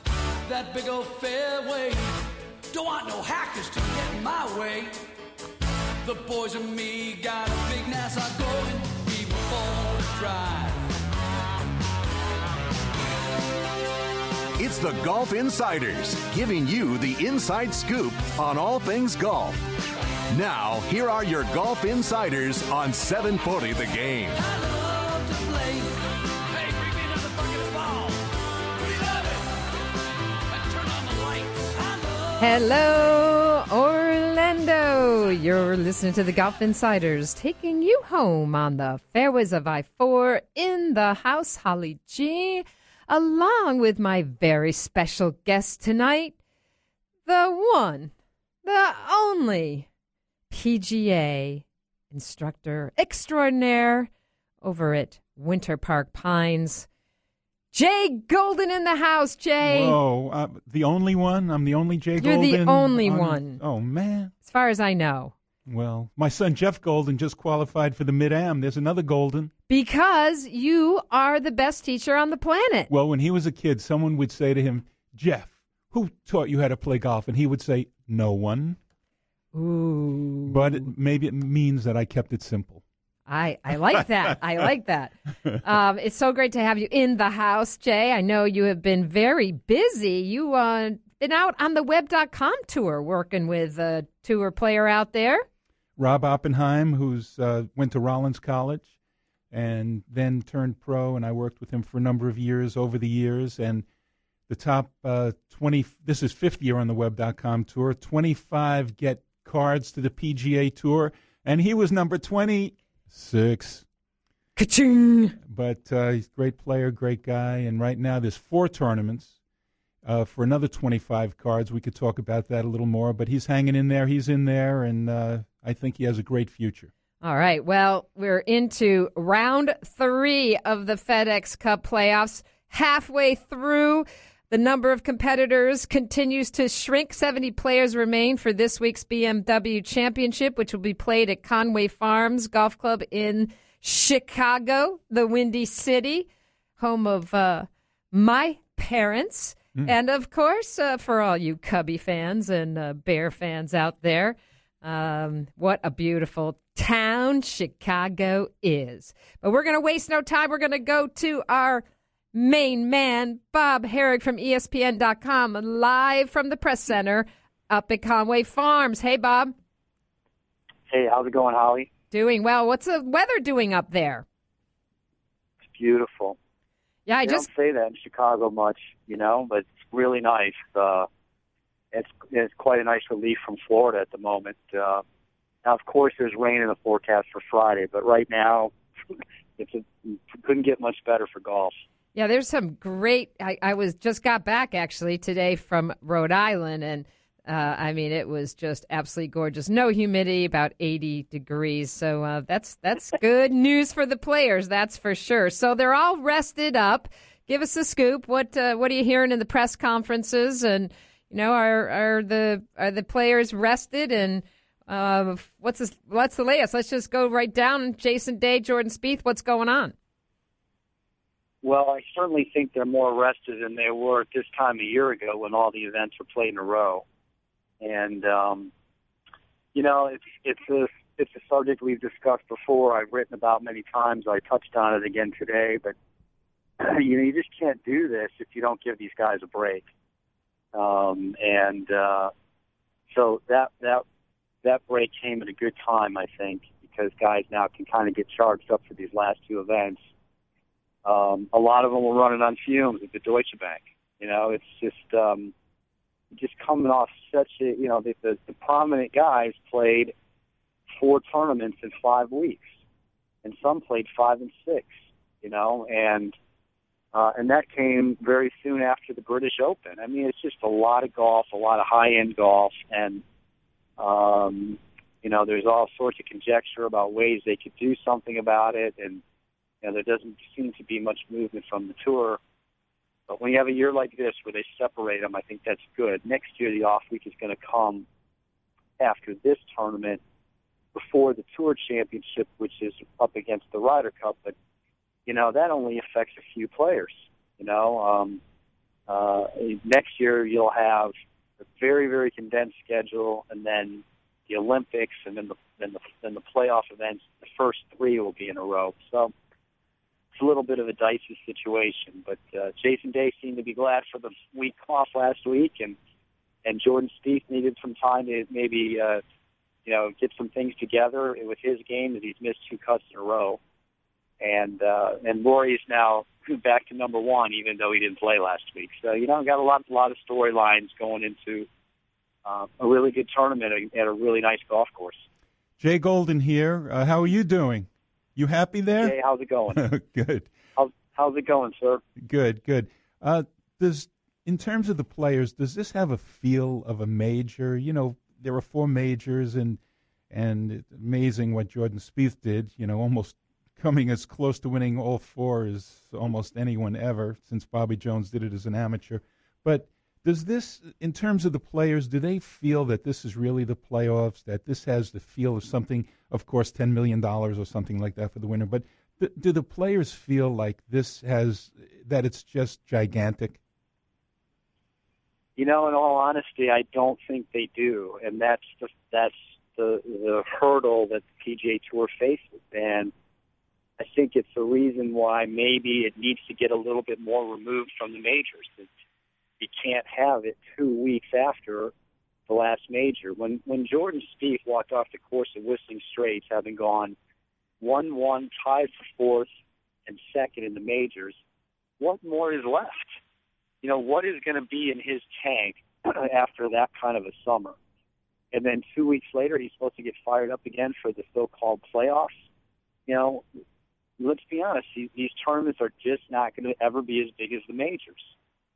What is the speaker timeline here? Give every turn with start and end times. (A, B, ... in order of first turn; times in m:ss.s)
0:00.4-0:02.2 A
0:02.7-0:05.1 A
0:06.0-0:11.0 A
0:14.6-0:19.6 B
0:20.3-0:24.4 B
0:24.3-0:29.7 A
0:30.5-0:32.8 A
0:32.4-0:46.3 C
0:47.2-0:48.1 C
0:48.6-0:49.9 C
0:50.5-0:54.1 C
0:54.6-0:56.9 C
0:57.7-1:00.0 C
0:59.6-1:04.3 D
1:02.2-1:03.6 C
1:04.4-1:05.3 C
1:05.7-1:09.5 D
1:09.7-1:12.9 C
1:12.9-1:18.8 D
1:19.5-1:20.9 C
1:20.5-1:22.8 D
1:23.3-1:35.4 C
1:36.0-1:38.9 D
1:39.5-1:43.9 D
1:44.5-1:53.9 D
1:54.6-1:55.4 C
1:55.4-1:59.4 D
2:00.0-2:06.9 D
2:07.2-2:49.5 C
2:50.9-2:51.9 E
2:52.1-2:54.2 C
2:55.6-2:56.4 E
2:57.1-2:57.5 C
2:57.2-3:01.1 E
3:01.9-3:05.0 E
3:05.6-3:11.8 E
3:12.1-3:39.9 C
3:41.6-3:47.0 E
3:47.8-3:48.7 E
3:49.7-3:55.9 E
3:56.8-3:59.8 E
4:00.7-4:02.3 E
4:03.1-4:04.0 E
4:04.6-4:10.0 E
4:11.0-4:15.5 E
4:16.3-4:20.1 E
4:20.9-4:22.7 E
4:23.4-4:26.3 E
4:27.1-4:33.2 E
4:34.0-4:39.2 E
4:39.8-4:42.4 E
4:43.3-4:48.0 E
4:49.0-4:50.2 E
4:50.9-4:54.6 E
4:55.2-4:58.4 E
4:59.1-5:09.3 E
5:10.3-5:16.0 E
5:16.6-5:19.2 E
5:19.9-5:23.6 E
5:24.4-5:31.7 E
5:32.4-5:35.2 E
5:35.8-5:39.1 D
5:39.0-5:39.8 E
5:39.7-5:40.5 D
5:40.8-5:42.0 E
5:42.2-5:49.8 D
5:50.3-6:13.6 D
6:15.6-6:23.1 E
6:24.0-6:28.9 E
6:29.6-6:31.9 E
6:32.5-6:37.1 E
6:37.8-6:39.5 E
6:40.1-6:41.4 E
6:42.0-6:43.2 E
6:43.8-6:47.8 E
6:48.5-6:52.3 E
6:53.1-6:53.4 E
6:54.2-6:58.3 E